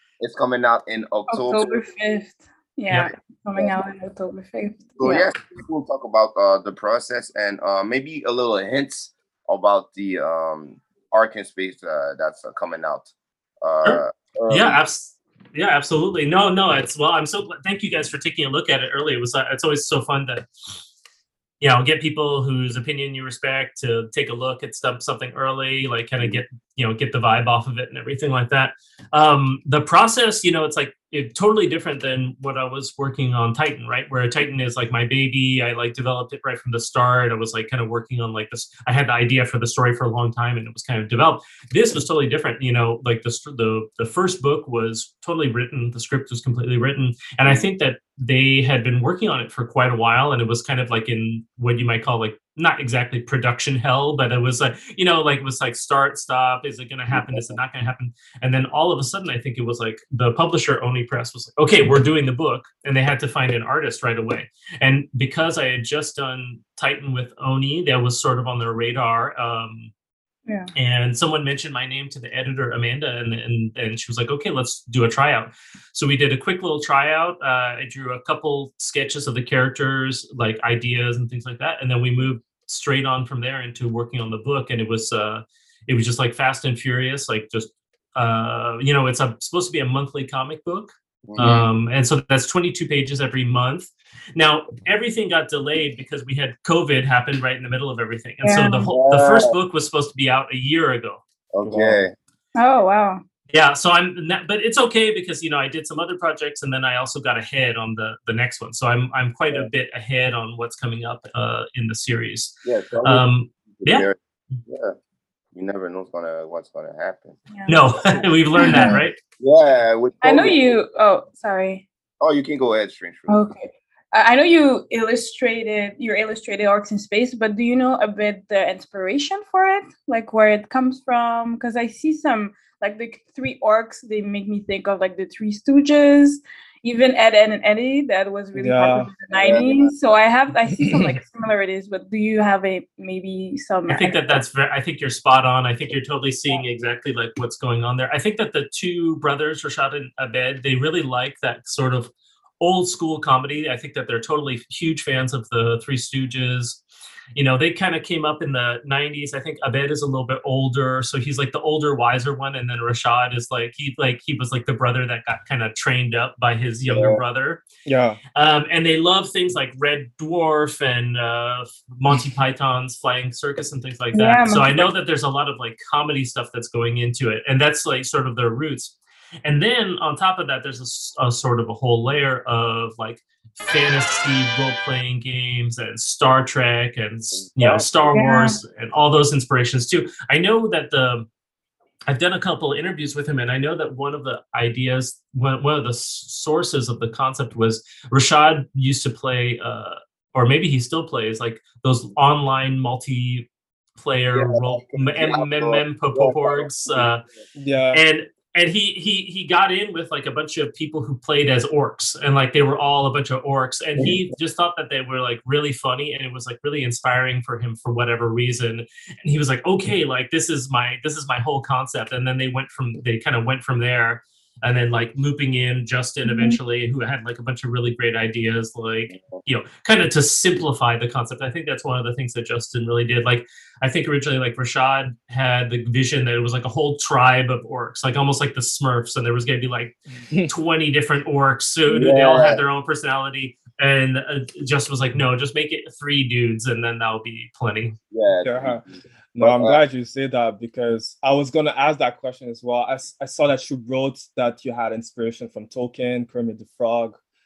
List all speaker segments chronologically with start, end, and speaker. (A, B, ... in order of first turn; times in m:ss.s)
0:00.2-0:01.8 A
0:01.3-0:05.3 B
0:05.0-0:13.1 A
0:13.6-0:14.8 A
0:13.8-0:20.5 C
0:21.6-1:09.9 C
0:57.1-0:57.6 A
1:10.8-1:41.2 C
1:31.3-1:31.7 A
1:38.4-1:38.9 B
1:38.9-1:39.5 A
1:41.5-1:42.1 A
1:41.6-1:42.0 D
1:42.6-1:43.2 B
1:43.5-1:54.1 C
1:52.6-1:55.0 A
1:55.5-1:57.4 A
1:57.5-1:59.0 B
1:57.7-1:59.2 C
1:58.7-2:00.8 A
2:00.2-2:01.8 B
2:02.2-2:03.4 A
2:03.3-2:24.4 B
2:18.6-2:19.1 D
2:19.3-2:19.9 A
2:23.9-2:36.8 C
2:37.4-2:47.6 C
2:46.8-2:47.2 A
2:47.9-2:48.2 D
2:48.4-3:11.3 C
2:54.1-2:54.9 B
3:07.4-3:07.9 A
3:08.1-3:08.6 B
3:12.1-3:27.2 C
3:24.3-3:27.4 A
3:27.6-3:28.0 D
3:27.9-4:00.0 C
3:46.2-3:46.6 B
3:49.1-3:49.4 A
4:00.2-4:00.5 D
4:00.5-4:08.0 C
4:01.9-4:02.6 A
4:08.1-4:09.8 A
4:08.4-4:08.8 D
4:09.4-4:17.2 D